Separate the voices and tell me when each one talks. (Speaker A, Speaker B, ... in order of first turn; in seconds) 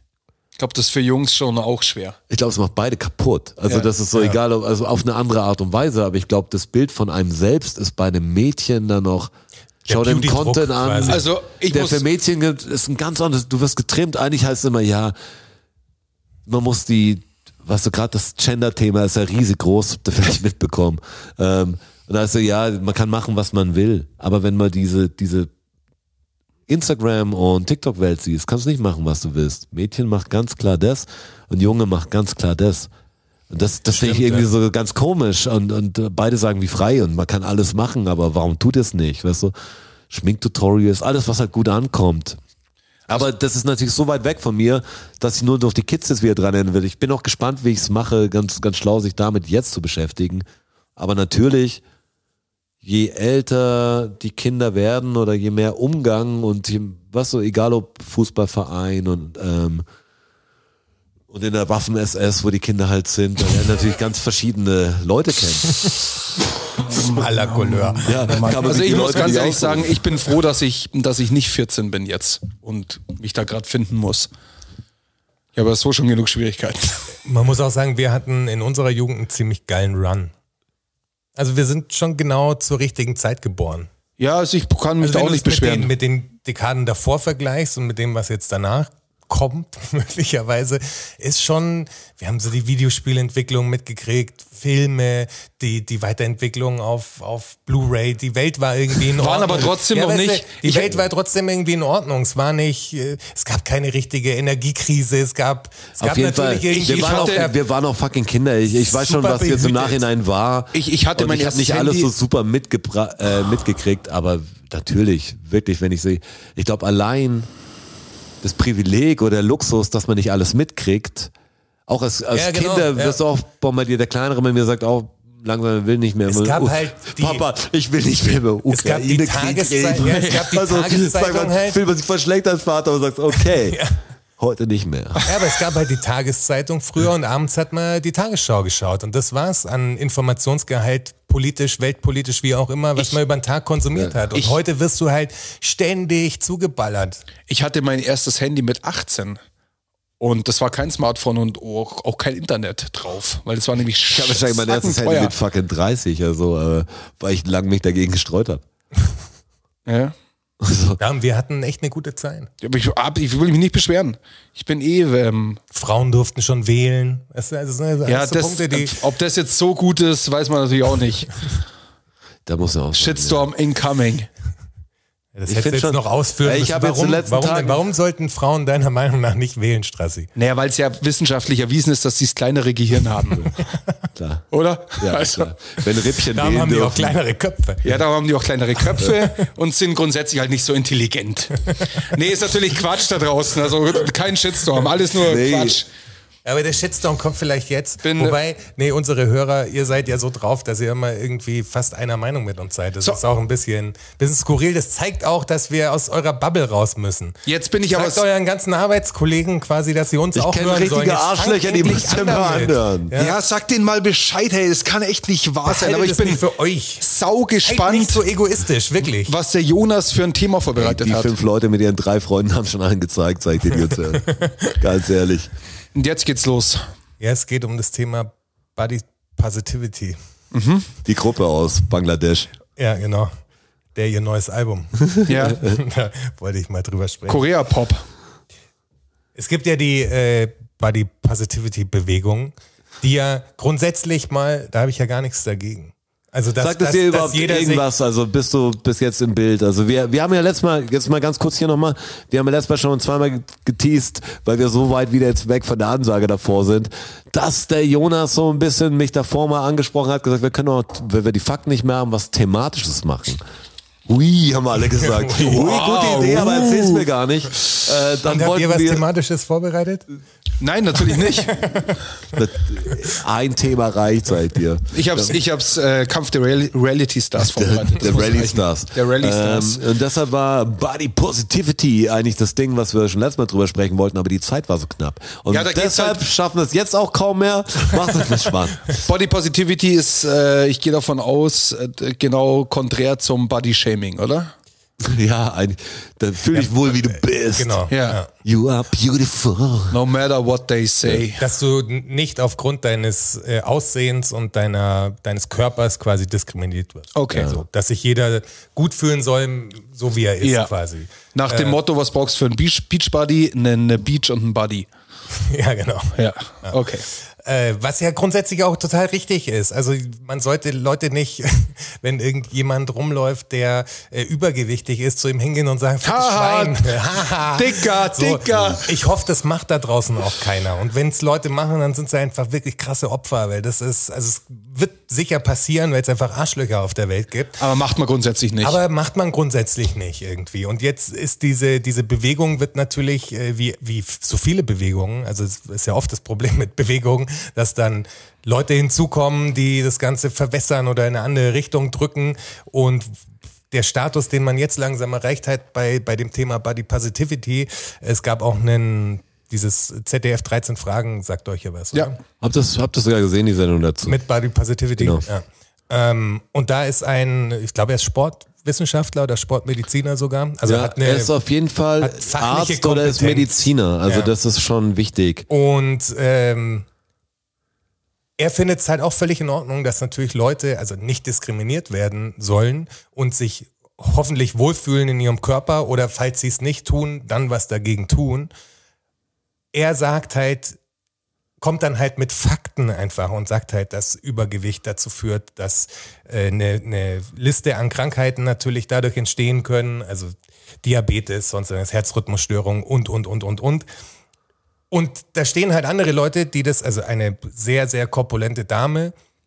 Speaker A: 0.6-2.2, 11.1-12.1, 66.8-74.3, 75.5-77.1, 84.2-85.9, 99.2-101.0, 106.7-107.5, 110.7-112.1, 130.0-130.5, 147.5-149.4, 150.2-155.3, 159.9-160.2, 162.6-165.6, 168.1-171.4, 172.9-174.3, 180.3-183.5, 184.5-185.5, 187.8-195.9, 198.0-198.4, 207.5-208.2, 213.2-216.4, 217.0-218.2, 219.0-221.3, 225.9-226.8, 230.5-230.9, 235.3-235.6, 237.3-238.0, 265.5-267.1, 270.6-271.7, 274.9-279.8, 285.5-286.2, 289.0-294.5, 297.9-298.2, 299.9-301.4, 307.1-307.5, 310.4-310.7, 311.3-314.9, 316.2-317.1, 326.0-326.9, 327.5-328.9, 337.6-338.8
Speaker B: 2.3-9.3, 9.9-15.1, 16.5-25.5, 26.7-32.9, 33.5-39.5, 40.1-42.4, 43.1-51.8, 52.8-59.9, 61.3-65.9, 68.0-70.0, 106.0-117.5, 118.4-121.3, 121.9-133.8, 134.4-135.5, 154.1-158.7, 160.6-161.0, 172.5-173.5, 175.5-177.8, 184.2-184.5, 185.0-187.2, 195.2-195.8, 210.3-213.1, 220.8-225.5, 231.1-232.5, 246.6-263.4, 264.1-269.0, 272.3-275.4, 277.4-288.8, 295.0-297.8, 298.4-300.0, 307.4-307.6, 362.4-364.2, 365.0-365.3, 370.7-375.5
Speaker C: 9.9-11.3, 33.9-34.5, 67.0-68.5, 77.2-80.3, 81.4-83.9, 85.0-107.6, 108.7-110.0, 122.3-123.2, 126.3-127.4, 128.7-131.8, 133.4-133.9, 135.2-147.2, 161.0-162.5, 165.7-169.0, 175.3-180.3, 186.3-187.9, 196.4-207.4, 207.9-213.4, 215.7-217.0, 217.7-219.3, 224.1-224.8, 227.2-230.2, 232.8-233.3, 233.9-237.4, 239.4-247.8, 265.0-265.9, 268.2-270.1, 271.5-272.4, 297.5-298.3, 301.4-311.8, 315.4-316.9, 317.4-337.6, 338.6-353.1, 353.7-362.2, 364.0-371.3, 372.0-374.3, 375.5-376.9, 378.4-388.5, 389.7-390.8, 391.6-403.9, 404.9-409.1